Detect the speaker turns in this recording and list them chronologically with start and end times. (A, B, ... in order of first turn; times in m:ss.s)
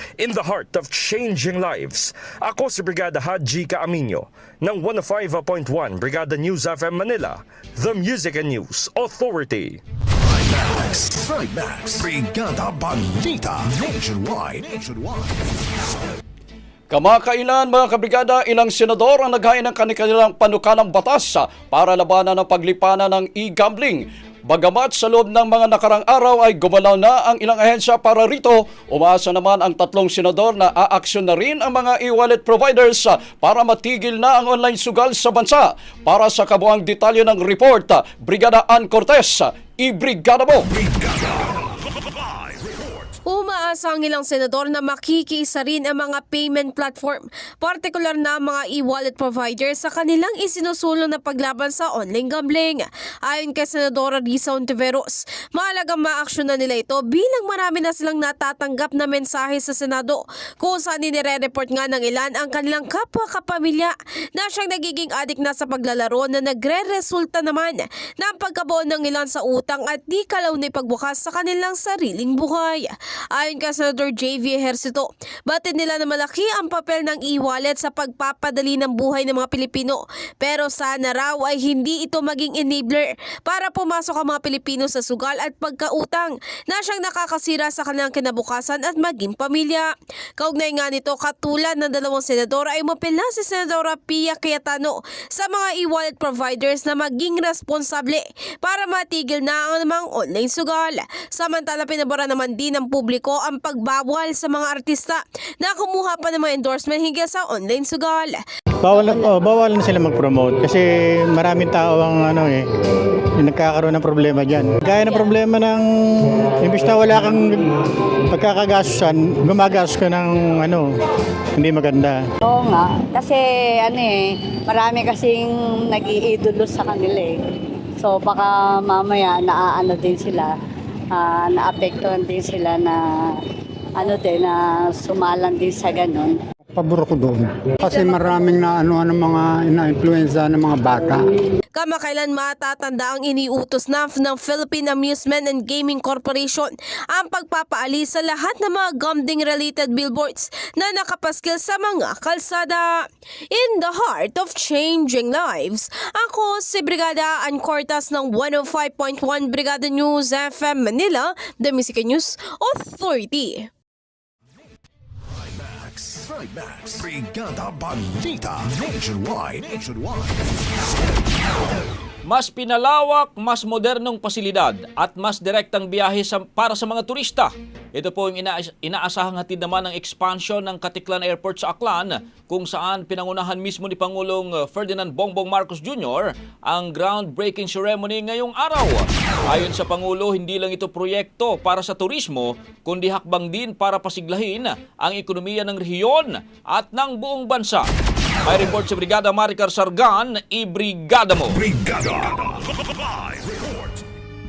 0:00.2-0:09.8 A
0:10.1-0:15.5 B
0:16.9-0:40.7 C
0:40.6-0:41.5 B
0:42.4-0:43.0 B
0:43.2-1:29.9 D
1:30.4-1:48.4 D
1:48.8-1:52.7 E
1:53.4-1:57.7 E
1:58.3-2:00.9 E
2:01.6-2:02.2 E
2:02.4-2:04.1 F
2:04.7-2:07.3 F
2:08.0-2:10.5 F
2:11.1-2:13.0 F
2:14.0-2:16.4 F
2:16.7-2:21.3 G
2:21.8-2:43.7 D
2:45.3-2:51.0 B
2:52.3-3:17.8 H
3:18.5-3:21.6 H
3:21.5-3:24.0 B